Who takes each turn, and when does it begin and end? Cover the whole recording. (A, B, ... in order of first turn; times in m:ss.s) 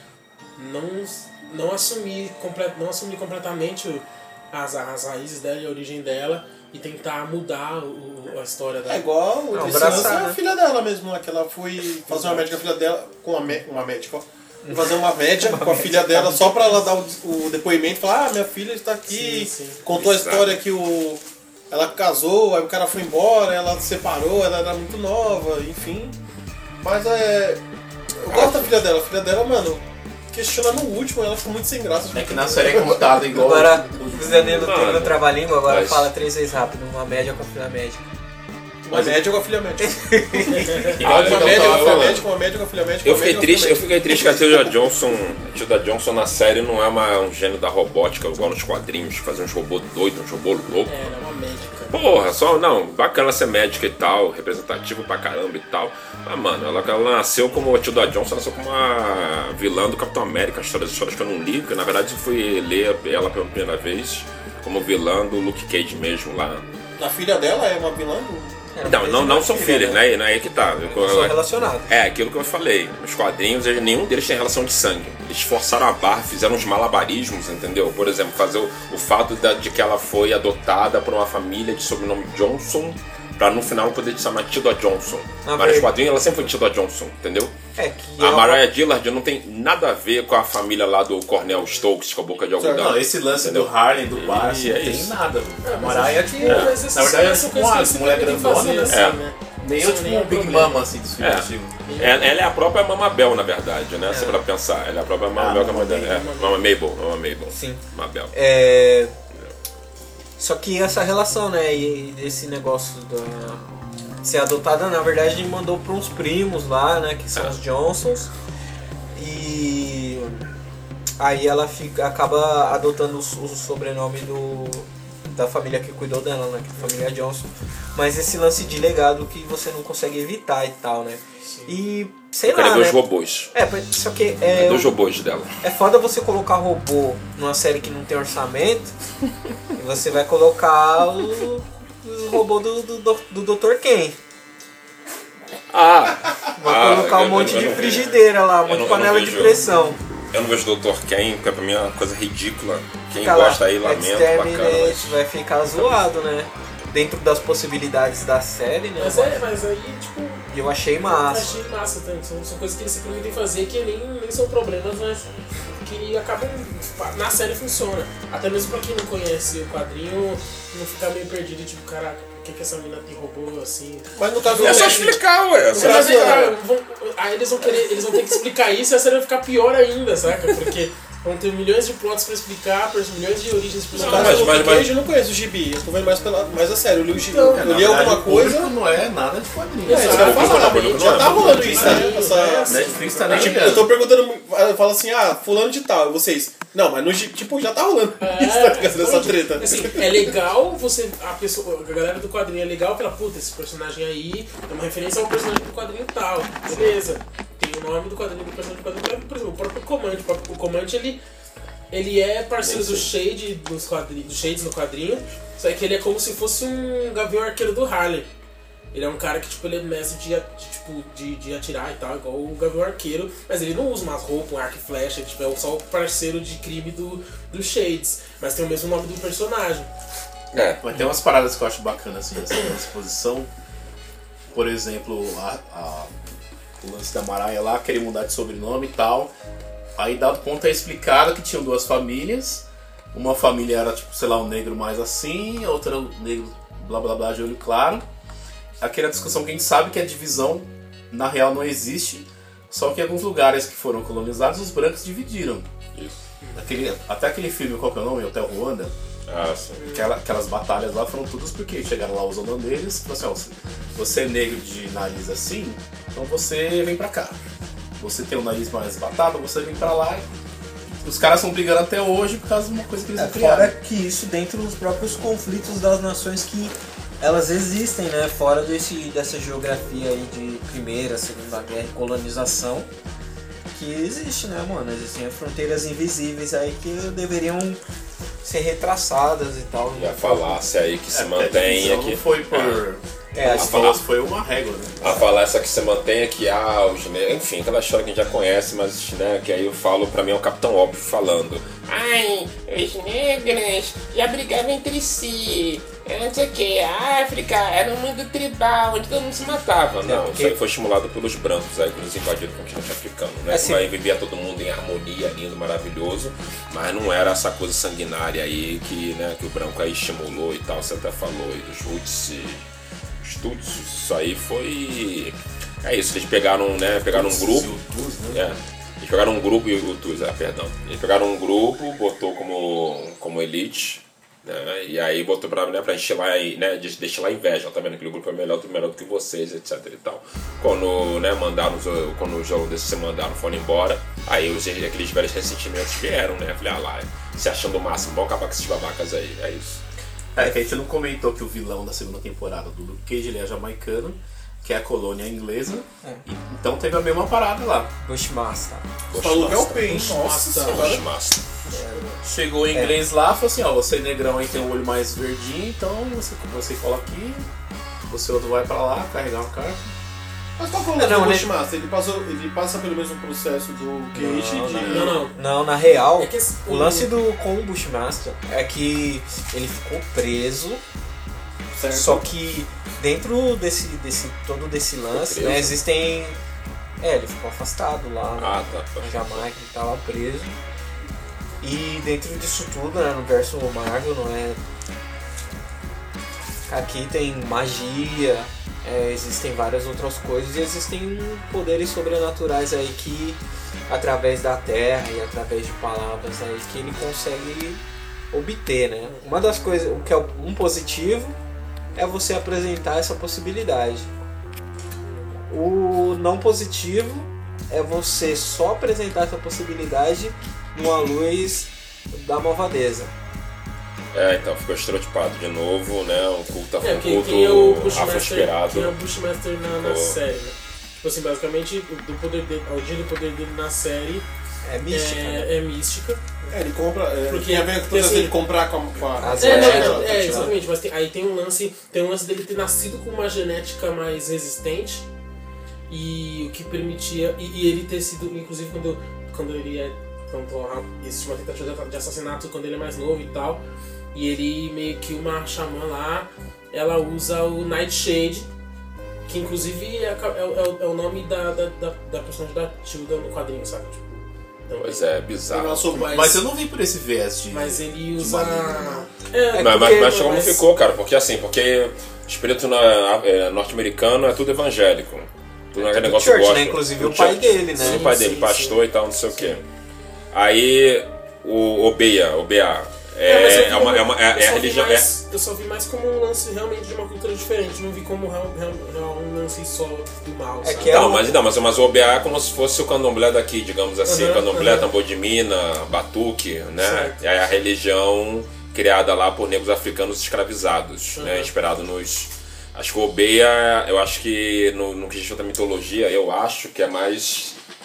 0:00.6-0:10.1 A
0:08.9-0:26.2 B
0:09.5-0:10.4 C
0:12.1-0:12.6 A
0:14.6-0:16.8 C
0:19.1-0:19.8 A
0:19.9-0:20.6 D
0:26.8-0:27.6 B
0:28.2-0:33.3 B
0:32.1-0:34.8 E
0:33.3-0:38.0 C
0:34.6-0:36.1 D
0:38.8-0:44.1 B
0:38.9-0:39.2 E
0:39.8-0:41.0 C
0:40.9-0:42.2 E
0:41.0-0:42.2 D
0:43.0-0:51.0 D
0:44.1-0:44.7 C
0:50.9-0:52.0 A
0:51.9-1:06.6 D
1:07.0-1:08.7 B
1:08.7-1:10.0 C
1:08.8-1:27.5 D
1:10.9-1:11.9 C
1:25.4-1:25.9 C
1:27.8-1:28.7 C
1:28.2-1:35.1 D
1:32.6-1:32.9 B
1:32.8-1:39.1 E
1:35.6-1:40.9 A
1:36.4-1:36.8 D
1:38.6-1:39.0 B
1:38.9-1:39.2 D
1:39.6-1:41.8 E
1:41.2-1:48.3 D
1:41.9-1:42.4 A
1:44.1-1:44.4 C
1:45.4-1:46.2 E
1:46.0-1:46.6 A
1:47.5-1:49.1 C
1:50.4-1:58.3 C
1:57.3-1:57.6 D
1:59.2-2:00.4 C
2:01.2-2:13.0 C
2:11.4-2:11.7 A
2:12.4-2:13.5 D
2:13.5-2:14.9 C
2:14.5-2:15.5 D
2:15.6-2:19.0 C
2:19.7-2:24.2 C
2:25.7-2:29.7 D
2:26.6-2:30.0 C
2:30.3-2:35.2 D
2:33.2-2:39.4 C
2:35.8-2:36.1 D
2:39.0-2:40.5 A
2:40.5-2:41.5 C
2:41.1-2:45.3 A
2:45.8-2:55.1 A
2:54.2-2:56.6 B
2:54.6-2:56.5 D
2:55.7-3:04.8 A
3:03.9-3:08.7 B
3:04.0-3:05.0 D
3:07.1-3:13.9 E
3:09.8-3:13.8 A
3:09.9-3:20.0 B
3:10.0-3:11.9 D
3:18.2-3:31.2 A
3:31.9-3:38.3 A
3:32.6-3:33.1 D
3:38.9-3:49.9 A
3:50.5-3:50.8 D
3:50.8-3:53.5 E
3:54.5-3:56.1 E
3:56.8-3:59.3 E
4:00.0-4:08.1 E
4:08.8-4:15.7 E
4:16.4-4:16.7 A
4:16.6-4:18.9 E
4:19.3-4:19.8 D
4:19.8-4:20.1 A
4:19.9-4:27.4 E
4:28.0-4:30.3 E
4:31.0-4:33.7 E
4:33.2-4:42.9 C
4:43.7-4:47.8 C
4:48.4-4:50.6 C
4:50.0-4:52.8 D
4:51.1-4:55.2 E
4:53.3-4:54.0 C
4:53.4-4:54.0 D
4:55.0-5:22.6 D
5:10.0-5:10.6 C
5:13.5-5:13.9 C
5:23.2-5:27.7 D
5:27.1-5:28.5 E
5:28.3-5:49.8 D
5:50.4-5:57.9 E
5:58.0-5:58.9 C
5:59.1-6:01.4 D
5:59.1-6:01.1 B
5:59.9-6:01.0 A
6:01.7-6:02.1 A
6:01.7-6:02.0 C
6:02.2-6:07.5 E
6:02.7-6:03.0 C
6:08.1-6:09.9 E
6:10.6-6:15.2 B
6:10.9-6:11.5 C
6:14.1-6:20.8 C
6:14.8-6:15.2 E
6:14.9-6:15.4 A
6:16.0-6:17.1 A
6:21.8-6:22.3 B
6:21.8-6:26.4 C
6:25.1-6:25.8 D
6:27.0-6:30.6 C
6:28.4-6:29.4 D
6:31.6-6:34.6 C
6:36.7-6:51.4 C
6:52.0-6:54.1 C
6:55.5-7:03.1 C
7:04.1-7:09.0 D
7:06.8-7:14.3 A
7:09.7-7:10.2 D
7:14.6-7:15.5 C
7:14.9-7:16.5 A
7:16.5-7:20.6 B
7:17.3-7:18.4 A
7:19.2-7:20.5 C
7:19.3-7:25.1 A
7:25.9-7:38.5 A
7:39.3-7:45.1 A
7:44.7-7:45.9 D
7:45.5-7:46.4 B
7:45.9-7:46.4 A
7:46.1-7:49.1 E
7:47.5-7:50.6 A
7:49.5-7:50.2 C
7:49.6-7:59.6 D
7:55.8-7:58.2 C
7:57.8-7:58.8 A
7:59.3-7:59.6 C
8:00.3-8:05.1 D
8:03.2-8:11.2 A
8:10.6-8:11.4 C
8:10.8-8:27.6 D
8:14.0-8:14.9 A
8:16.8-8:17.2 A
8:21.2-8:21.5 A